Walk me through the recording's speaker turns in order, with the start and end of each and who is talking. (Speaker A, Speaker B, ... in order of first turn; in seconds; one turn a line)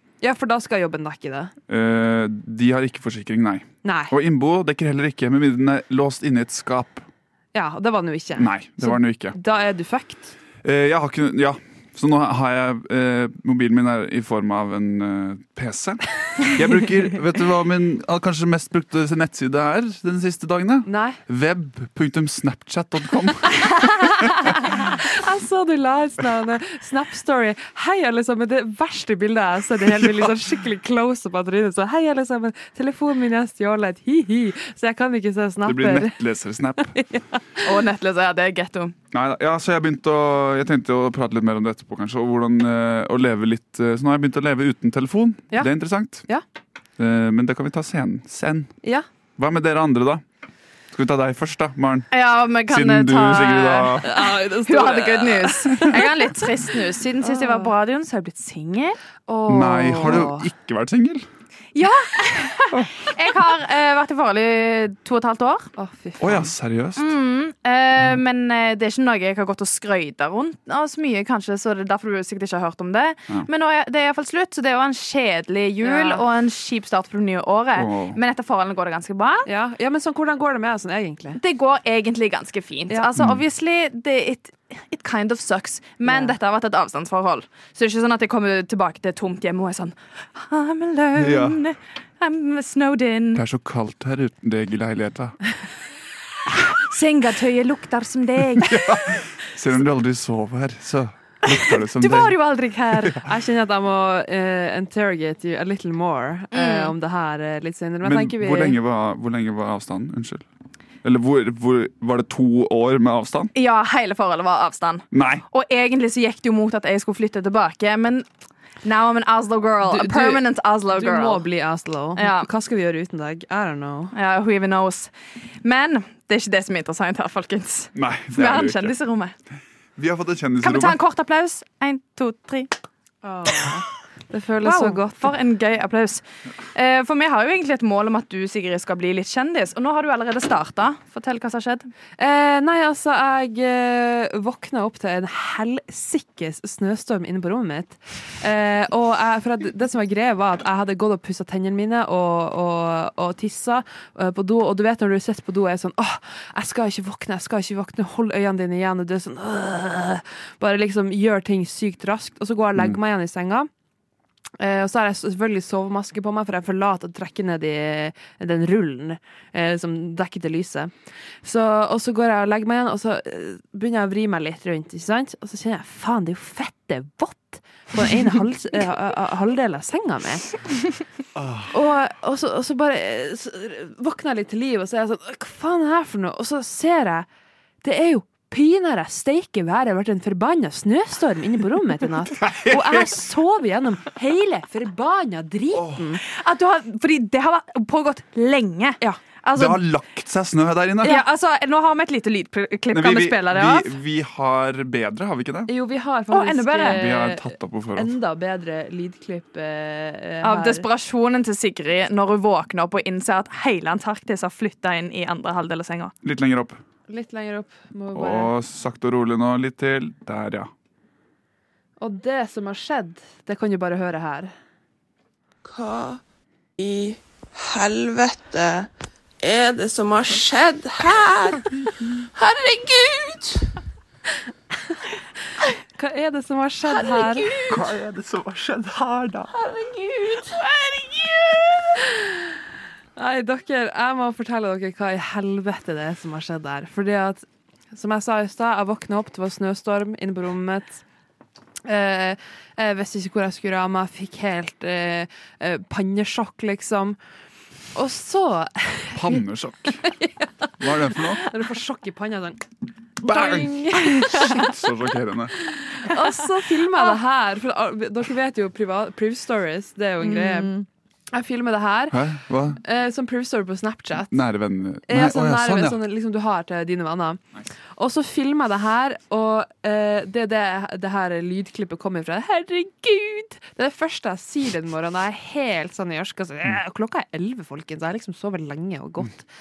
Speaker A: 0.2-1.5
Speaker B: 1.7-7.0
Speaker A: 3.8-4.1
Speaker A: 7.5-10.3
Speaker B: 8.4-9.4
Speaker B: 10.6-23.6
Speaker A: 20.8-21.2
Speaker A: 23.7-36.2
Speaker B: 35.6-37.0
Speaker A: 36.9-37.7
Speaker C: 37.6-38.9
Speaker B: 39.1-46.3
Speaker B: 47.0-48.7
Speaker B: 49.4-50.2
Speaker B: 50.9-52.1
Speaker C: 52.1-59.0
Speaker B: 52.7-54.1
Speaker A: 54.0-56.4
Speaker A: 57.2-57.7
Speaker A: 59.3-60.5
Speaker B: 59.5-61.2
Speaker C: 61.7-65.7
Speaker A: 65.8-66.5
Speaker B: 66.2-67.1
Speaker C: 67.0-79.5
Speaker A: 75.8-76.2
Speaker B: 77.8-78.2
Speaker A: 79.5-81.4
Speaker C: 81.4-93.4
Speaker A: 86.1-86.3
Speaker B: 91.2-91.6
Speaker B: 93.3-95.4
Speaker C: 96.5-99.2
Speaker B: 98.7-102.4
Speaker C: 101.9-103.2
Speaker A: 103.2-108.8
Speaker C: 106.5-106.9
Speaker B: 108.0-110.4
Speaker B: 111.0-113.5
Speaker C: 113.5-118.3
Speaker B: 115.1-115.4
Speaker C: 118.8-121.4
Speaker A: 119.8-124.1
Speaker C: 122.2-122.5
Speaker C: 124.1-129.3
Speaker B: 127.9-128.9
Speaker B: 129.9-131.0
Speaker C: 130.6-132.7
Speaker A: 133.2-135.3
Speaker C: 134.6-136.2
Speaker C: 136.7-141.9
Speaker A: 142.2-163.7
Speaker A: 164.6-170.9
Speaker A: 171.4-180.5
Speaker B: 181.3-181.7
Speaker A: 181.7-187.2
Speaker A: 187.8-196.2
Speaker B: 192.3-193.1
Speaker B: 195.7-196.1
Speaker C: 196.2-199.8
Speaker B: 199.5-201.2
Speaker C: 201.0-203.9
Speaker B: 202.9-205.7
Speaker A: 205.7-210.8
Speaker C: 206.3-207.0
Speaker B: 206.8-208.1
Speaker C: 210.4-216.1
Speaker B: 216.2-216.8
Speaker A: 217.1-218.5
Speaker B: 218.1-220.7
Speaker A: 222.0-224.5
Speaker D: 225.7-226.2
Speaker D: 226.8-228.9
Speaker D: 229.4-231.6
Speaker D: 232.4-233.6
Speaker A: 235.9-237.6
Speaker B: 237.7-239.5
Speaker D: 239.6-241.7
Speaker A: 242.1-242.4
Speaker A: 243.2-251.0
Speaker A: 251.8-257.2
Speaker A: 257.9-259.4
Speaker B: 259.1-260.0
Speaker A: 260.0-262.6
Speaker B: 260.8-261.4
Speaker B: 263.2-265.5
Speaker A: 263.3-264.6
Speaker A: 265.9-270.7
Speaker C: 270.2-270.9
Speaker A: 271.3-272.2
Speaker B: 272.1-272.8
Speaker A: 272.8-274.4
Speaker B: 274.3-276.0
Speaker A: 275.1-277.4
Speaker A: 278.0-289.5